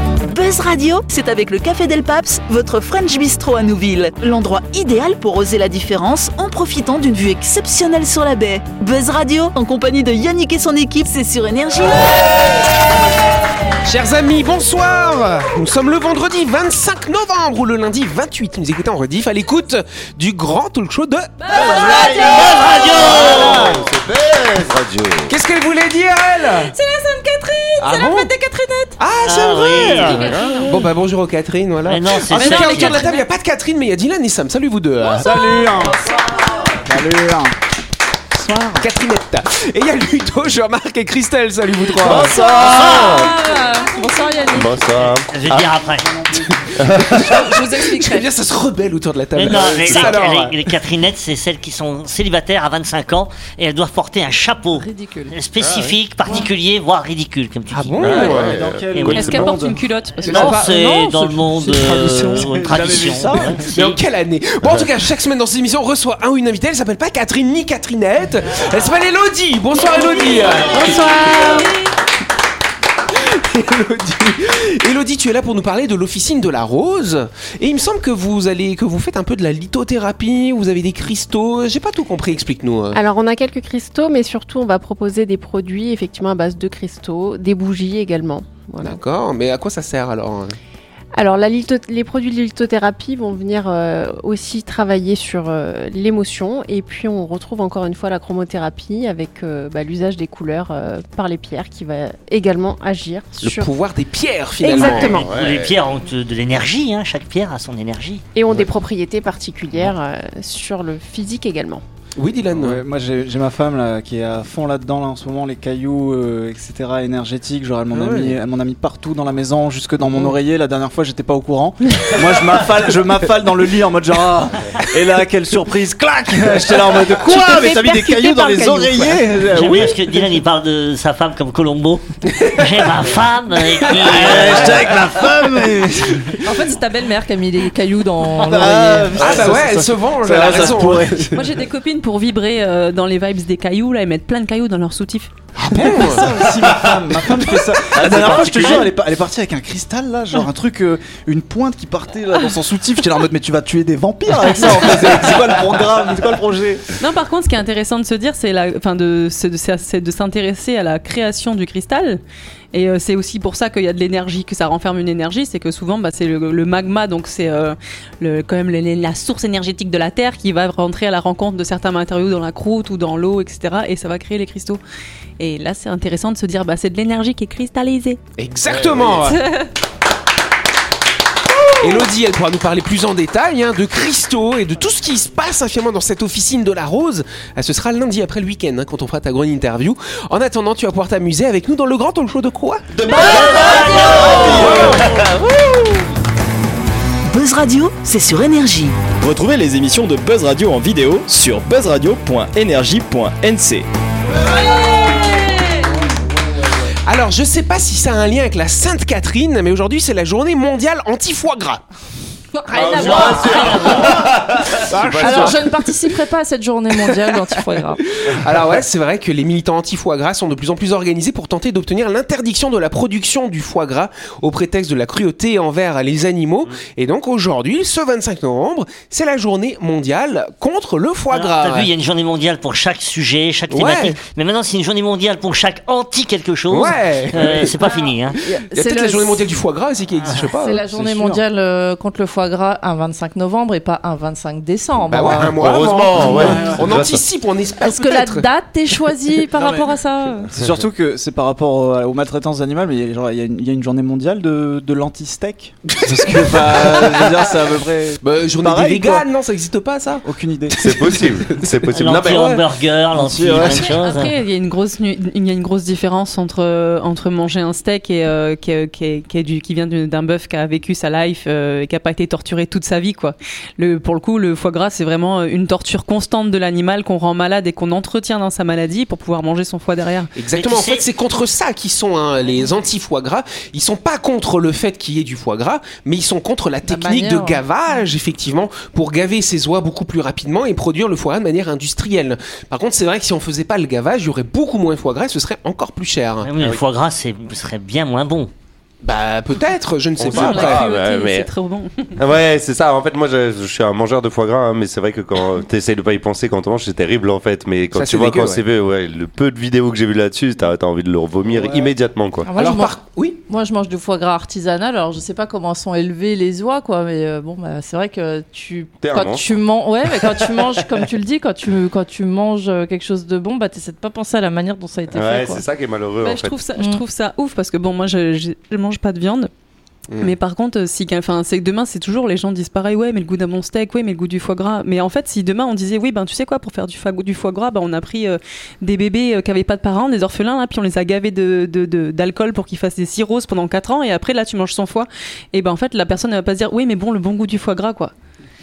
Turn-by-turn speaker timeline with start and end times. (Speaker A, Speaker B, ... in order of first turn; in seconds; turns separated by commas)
Speaker A: 0.2-12.3, Speaker B: 13.8-21.5, Speaker C: 21.5-22.5, Speaker D: 21.5-25.3, Speaker E: 21.9-23.8, Speaker B: 23.1-23.7, Speaker B: 25.3-26.7, Speaker C: 26.7-28.9, Speaker B: 27.8-28.3, Speaker B: 29.0-35.5, Speaker E: 29.2-30.5, Speaker C: 30.0-30.9, Speaker E: 31.9-33.2, Speaker C: 32.3-33.3, Speaker F: 35.0-36.1, Speaker D: 35.8-36.7, Speaker F: 36.8-37.5, Speaker F: 38.4-38.8, Speaker B: 38.8-42.3, Speaker D: 42.0-43.4, Speaker G: 42.2-45.0, Speaker C: 42.8-44.5, Speaker D: 44.5-45.7, Speaker E: 45.3-46.1, Speaker F: 46.0-46.6, Speaker B: 46.6-50.7, Speaker D: 46.8-47.3, Speaker G: 47.1-48.3, Speaker E: 49.4-58.4, Speaker G: 54.8-55.3, Speaker D: 55.6-56.0, Speaker B: 57.7-58.6, Speaker D: 58.0-59.6, Speaker F: 58.2-59.8, Speaker E: 59.0-59.3, Speaker C: 59.1-60.7, Speaker B: 60.2-61.2, Speaker E: 60.2-64.0, Speaker F: 60.5-63.8, Speaker B: 63.7-71.7, Speaker C: 69.8-71.8, Speaker B: 73.1-83.0, Speaker H: 82.9-89.0, Speaker B: 88.8-90.6, Speaker H: 91.2-103.7, Speaker B: 103.4-105.2, Speaker C: 104.6-105.3, Speaker E: 104.7-108.2, Speaker H: 104.8-105.2, Speaker D: 105.2-105.8, Speaker H: 108.3-111.8, Speaker B: 112.2-112.8, Speaker F: 112.6-130.3, Speaker B: 117.9-118.4, Speaker B: 120.0-120.4, Speaker D: 127.2-129.2, Speaker E: 129.5-135.0, Speaker B: 132.3-132.9, Speaker B: 133.8-134.6, Speaker D: 134.2-135.0, Speaker F: 134.2-136.4, Speaker G: 136.4-139.3, Speaker F: 138.3-141.4, Speaker B: 139.2-141.4, Speaker C: 141.3-145.3, Speaker B: 145.6-146.4, Speaker F: 145.7-157.0, Speaker D: 147.9-148.9, Speaker C: 157.0-162.2, Speaker C: 162.7-174.8, Speaker C: 175.4-178.2, Speaker B: 178.4-179.4, Speaker D: 178.7-179.4, Speaker C: 179.4-179.7, Speaker B: 181.8-195.3, Speaker D: 192.9-195.3, Speaker G: 193.2-194.8, Speaker E: 193.5-194.6, Speaker A: 197.2-199.0, Speaker I: 199.2-203.9, Speaker G: 204.8-205.5, Speaker B: 207.1-211.8, Speaker G: 212.6-214.2, Speaker D: 212.7-215.7, Speaker E: 212.9-214.0, Speaker B: 213.0-213.3, Speaker B: 214.1-215.6, Speaker G: 215.2-218.0, Speaker B: 218.2-231.9, Speaker E: 231.3-238.4, Speaker B: 233.7-234.2, Speaker B: 236.7-238.1, Speaker G: 238.4-239.4, Speaker B: 238.7-240.8, Speaker G: 240.6-245.6, Speaker F: 240.9-241.4, Speaker B: 245.1-248.5, Speaker D: 245.3-247.2, Speaker G: 246.2-246.7, Speaker F: 246.3-247.0, Speaker G: 247.8-250.5, Speaker F: 249.6-249.9, Speaker F: 250.5-259.3, Speaker B: 255.9-257.2, Speaker B: 258.2-261.7, Speaker F: 260.2-260.8, Speaker D: 260.8-262.6, Speaker E: 261.9-264.4, Speaker B: 262.2-262.6, Speaker F: 263.1-264.1, Speaker C: 263.6-280.3, Speaker B: 280.4-296.5, Speaker E: 280.5-281.1, Speaker G: 286.9-287.6, Speaker E: 296.4-298.5, Speaker B: 299.0-300.8, Speaker D: 300.2-301.5, Speaker C: 300.3-302.1, Speaker D: 302.2-312.5, Speaker B: 307.9-308.6, Speaker F: 311.5-311.9, Speaker G: 312.4-325.6, Speaker B: 312.6-313.4, Speaker D: 319.0-319.6, Speaker D: 320.2-320.6, Speaker D: 325.1-326.6, Speaker C: 326.2-329.5, Speaker B: 330.1-330.4, Speaker C: 330.2-348.1